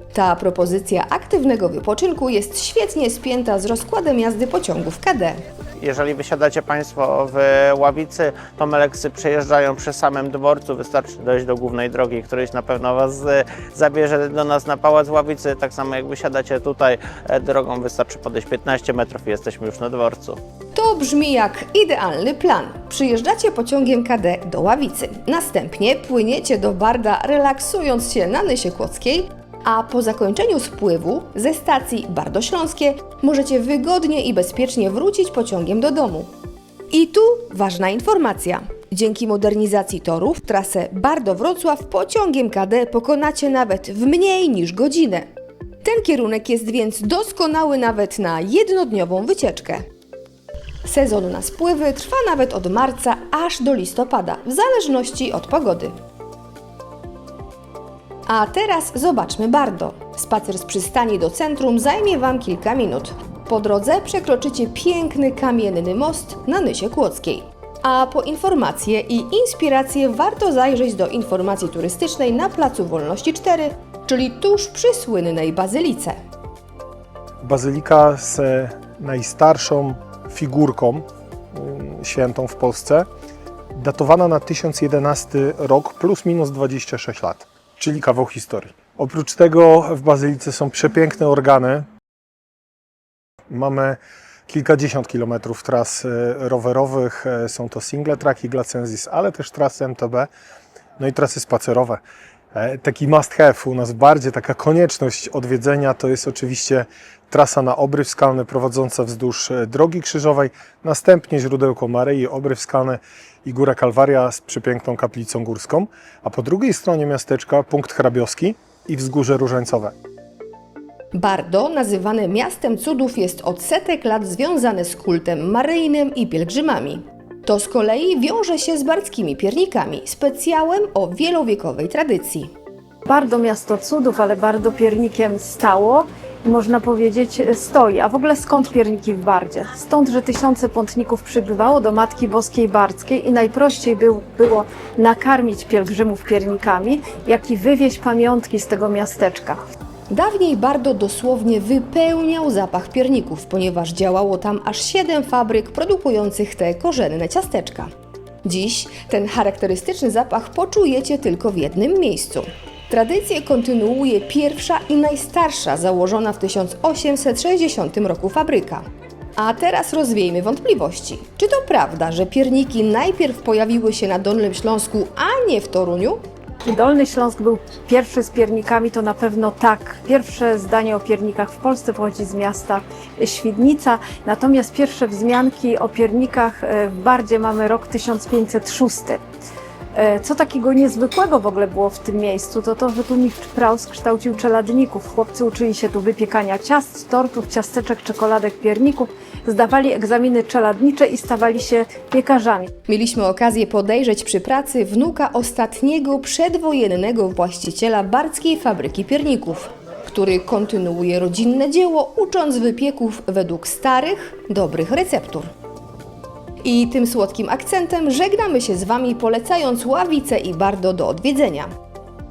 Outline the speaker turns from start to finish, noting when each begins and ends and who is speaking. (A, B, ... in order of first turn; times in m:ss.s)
0:00.1-0:05.4 A
0:05.8-0:20.4 B
0:20.7-0:36.3 A
0:36.9-0:45.3 A
0:45.8-0:49.8 A
0:50.8-0:55.9 A
0:58.3-1:16.2 A
1:17.4-1:23.1 C
1:23.7-1:31.9 C
1:33.5-1:40.3 C
1:41.0-1:42.0 C
1:42.5-1:59.9 C
2:01.1-2:12.5 A
2:13.1-2:29.6 D
2:30.1-2:37.9 A
2:38.4-2:48.8 A
2:49.4-2:56.2 A
2:56.6-3:09.2 D
3:09.9-3:22.7 D
3:22.9-3:35.5 A
3:36.6-3:41.7 A